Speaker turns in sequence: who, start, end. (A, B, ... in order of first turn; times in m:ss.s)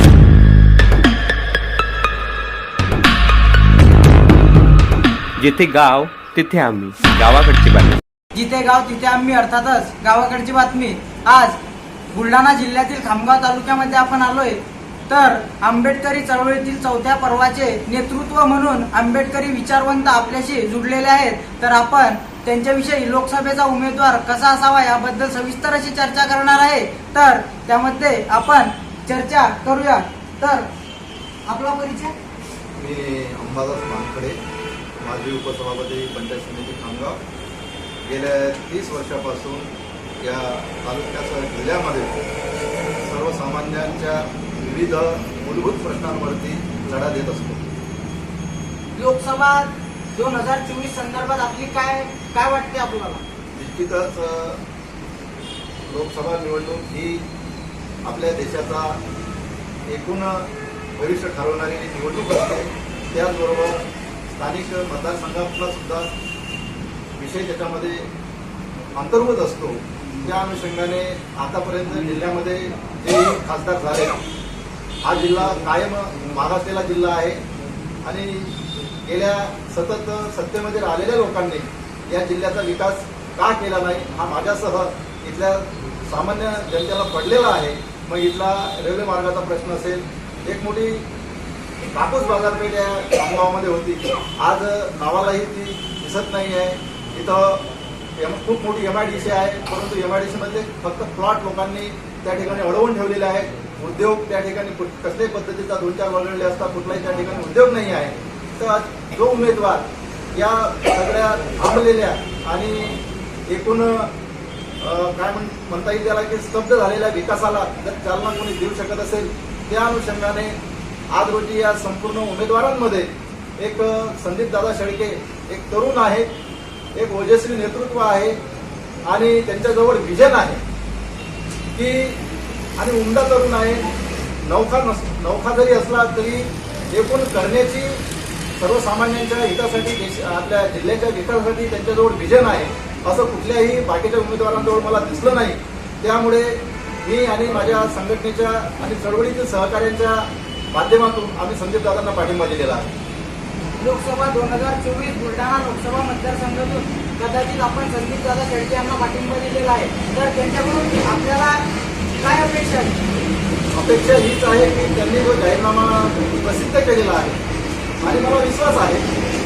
0:05.4-0:08.0 A
0:08.3-0:11.6 B
0:12.1-0:30.7 B
0:31.5-0:32.1 B
0:32.8-0:34.4 C
0:35.0-0:37.2 C
0:38.0-0:39.7 C
0:40.2-0:42.2 C
0:43.0-0:47.6 C
0:49.0-0:53.2 B
0:53.5-0:54.6 C
0:55.9-0:57.2 C
0:58.0-0:59.0 C
0:59.9-1:06.1 C
1:07.2-1:08.1 C
1:08.9-1:14.2 C
1:15.0-1:17.4 C
1:18.0-1:31.0 C
1:31.9-1:37.6 C
1:38.2-1:54.1 C
1:54.8-2:00.5 C
2:01.1-2:06.3 C
2:06.9-2:08.4 C
2:09.1-2:10.6 C
2:11.8-2:12.2 C
2:12.8-2:13.9 C
2:14.4-2:18.0 C
2:18.6-2:32.9 C
2:33.8-2:43.0 B
2:43.7-2:47.4 C
2:48.0-2:49.1 C